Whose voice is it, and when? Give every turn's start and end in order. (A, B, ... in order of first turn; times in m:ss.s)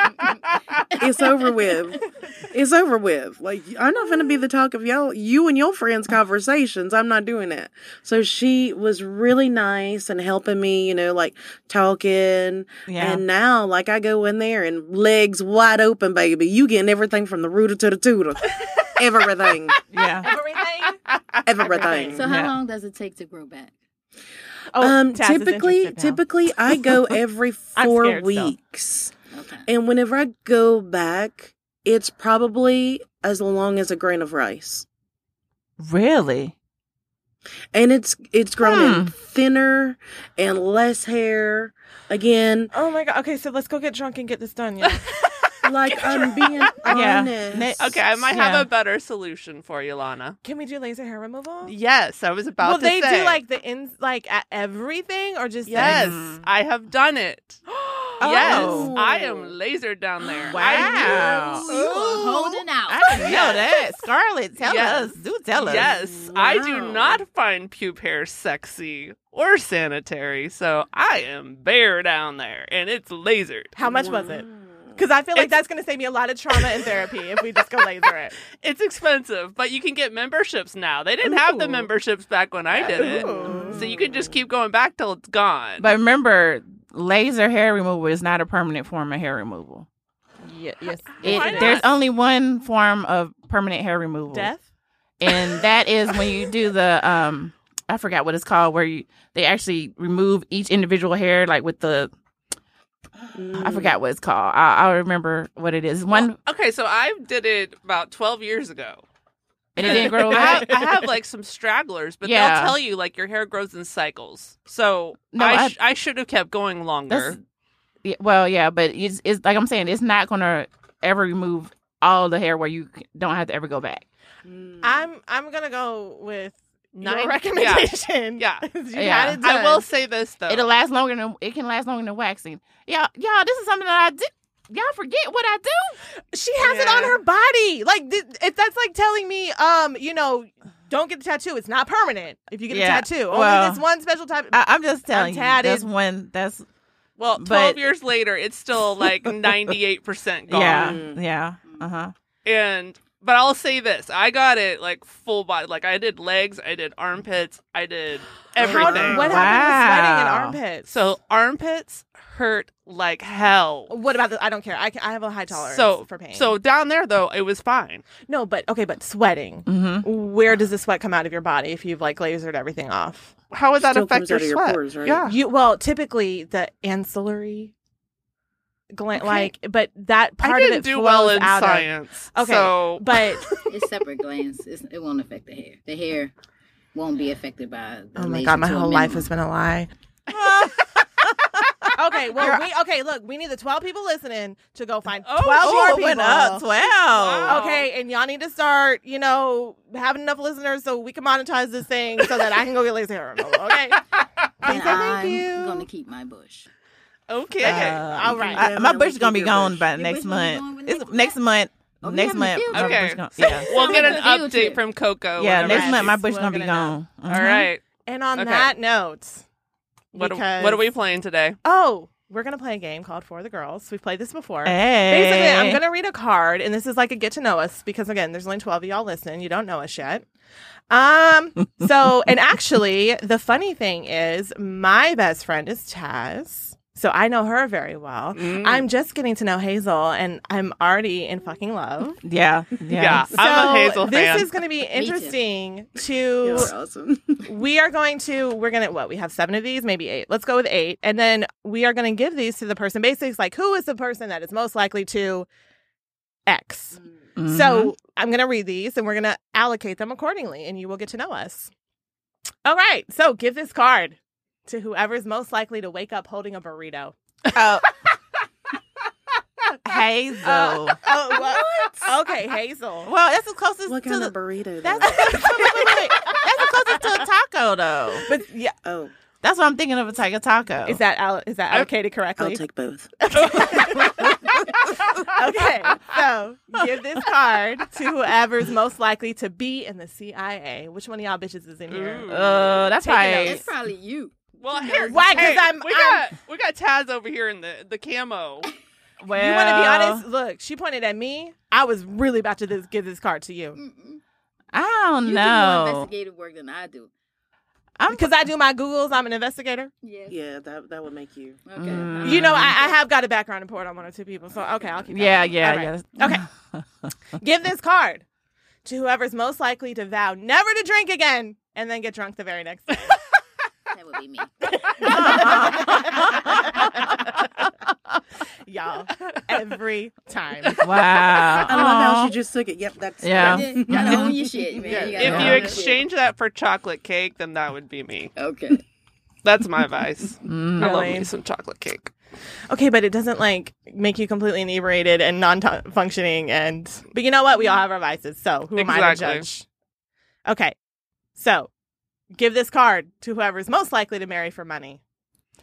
0:00.9-0:19.8 A
0:12.9-0:13.2 B
0:19.9-0:20.3 B
0:20.0-0:22.2 C
0:21.1-0:21.4 D
0:21.4-0:22.2 A
0:22.1-0:23.7 E
0:22.2-0:22.6 B
0:24.7-0:26.2 C
0:24.8-0:29.1 A
0:27.8-0:28.5 C
0:29.3-0:29.7 E
0:29.7-0:34.9 A
0:35.8-0:36.5 B
0:37.7-0:42.7 A
0:38.6-0:39.1 B
0:42.7-0:45.1 C
0:45.6-0:47.9 A
0:45.9-0:46.3 D
0:45.9-0:46.3 C
0:46.9-0:48.7 B
0:47.8-0:50.4 D
0:50.4-0:51.7 C
0:51.6-0:53.4 D
0:52.6-0:56.2 C
0:55.7-0:57.6 D
0:55.8-0:56.4 B
0:57.7-0:58.8 C
0:58.2-0:58.9 B
0:58.2-1:02.5 D
0:58.5-0:59.6 A
1:00.5-1:01.7 B
1:01.0-1:01.5 A
1:01.7-1:03.4 E
1:02.9-1:05.9 B
1:03.2-1:03.8 D
1:04.6-1:13.7 D
1:05.6-1:07.2 A
1:13.8-1:18.4 C
1:13.9-1:15.0 A
1:16.5-1:17.0 D
1:18.6-1:25.9 D
1:22.8-1:23.8 C
1:23.0-1:24.4 A
1:25.8-1:29.9 B
1:30.4-1:31.9 C
1:31.2-1:31.8 D
1:31.2-1:34.5 B
1:34.3-1:34.6 C
1:35.2-1:42.1 B
1:43.3-1:44.0 A
1:43.6-1:46.4 B
1:46.1-1:49.0 D
1:49.8-1:50.8 B
1:49.8-1:57.4 D
1:49.8-1:50.8 C
1:52.2-1:52.8 B
1:55.3-1:55.8 B
1:57.1-1:57.4 B
1:58.0-2:04.0 B
2:04.4-2:05.1 A
2:04.8-2:09.8 C
2:06.9-2:08.7 D
2:09.0-2:09.4 B
2:09.4-2:10.7 D
2:10.5-2:16.0 B
2:16.3-2:25.9 C
2:16.6-2:17.2 D
2:22.7-2:23.8 B
2:24.5-2:26.6 B
2:27.2-2:31.0 D
2:27.4-2:27.8 B
2:30.5-2:32.1 B
2:30.7-2:31.2 A
2:32.4-2:39.5 D
2:38.6-2:40.9 C
2:38.6-2:38.9 A
2:38.8-2:40.6 B
2:40.8-2:43.9 D
2:43.9-2:46.5 C
2:45.5-2:48.1 D
2:48.2-2:53.3 C
2:49.7-2:50.1 B
2:53.5-2:55.4 D
2:53.8-2:55.3 A
2:55.3-2:57.7 C
2:58.9-3:03.6 C
3:00.4-3:03.5 D
3:03.7-3:06.3 E
3:07.0-3:09.3 E
3:08.2-3:09.9 C
3:10.3-3:12.6 B
3:12.0-3:16.7 C
3:15.2-3:16.1 D
3:15.6-3:17.6 B
3:17.1-3:17.9 D
3:17.4-3:24.0 C
3:24.6-3:25.9 C
3:24.6-3:26.7 E
3:24.7-3:25.0 D
3:27.3-3:28.1 D
3:27.6-3:33.7 B
3:27.6-3:28.7 C
3:28.4-3:29.9 A
3:29.9-3:31.4 E
3:32.0-3:34.8 E
3:32.7-3:36.1 D
3:33.4-3:34.3 C
3:35.4-3:37.7 B
3:35.5-3:37.0 C
3:37.3-3:38.7 D
3:38.1-3:39.4 C
3:40.1-3:41.6 D
3:40.1-3:40.9 C
3:41.6-3:50.3 C
3:44.6-3:45.8 B
3:50.9-4:02.2 C
3:58.3-3:58.9 D
4:02.2-4:03.3 B
4:02.9-4:04.5 D
4:03.3-4:06.7 C
4:04.9-4:05.4 E
4:06.4-4:07.5 A
4:07.4-4:15.5 C
4:16.5-4:21.7 C
4:17.4-4:17.9 B
4:22.6-4:27.2 C
4:27.5-4:27.9 B
4:29.8-4:31.0 B
4:30.4-4:33.1 C
4:33.1-4:34.3 B
4:33.9-4:35.4 A
4:34.8-4:37.2 C
4:35.2-4:38.3 B
4:38.3-4:38.8 C
4:38.8-4:39.1 A
4:39.4-4:41.0 B
4:40.8-4:42.6 C
4:42.4-4:43.3 A
4:43.2-4:53.6 C
4:43.3-4:44.1 D
4:44.0-4:44.7 B
4:51.9-4:52.7 D
4:52.3-4:53.7 B
4:53.4-4:55.6 E
4:54.6-4:58.7 D
4:55.1-4:56.2 C
4:59.2-5:00.2 B
4:59.3-5:03.8 C
5:03.8-5:04.2 E
5:04.7-5:06.1 B
5:05.2-5:07.1 E
5:08.0-5:08.3 B
5:08.1-5:09.9 C
5:10.0-5:10.4 E
5:10.3-5:11.7 A
5:11.7-5:13.0 E
5:11.8-5:12.8 B
5:12.2-5:16.4 C
5:15.1-5:17.1 B
5:17.4-5:18.2 C
5:18.8-5:23.2 C
5:23.9-5:26.8 E
5:24.7-5:27.2 C
5:25.0-5:27.0 B
5:28.6-5:31.0 C
5:30.8-5:32.3 B
5:31.6-5:35.6 A
5:33.2-5:34.4 B
5:33.4-5:36.1 E
5:34.9-5:38.3 D
5:35.2-5:35.7 B
5:38.4-5:38.8 E
5:39.4-5:42.1 D
5:40.4-5:41.0 B
5:40.8-5:41.3 C
5:42.7-5:49.6 C
5:48.8-5:49.5 D
5:50.5-5:50.8 C
5:51.4-5:51.7 C
5:52.3-5:55.0 C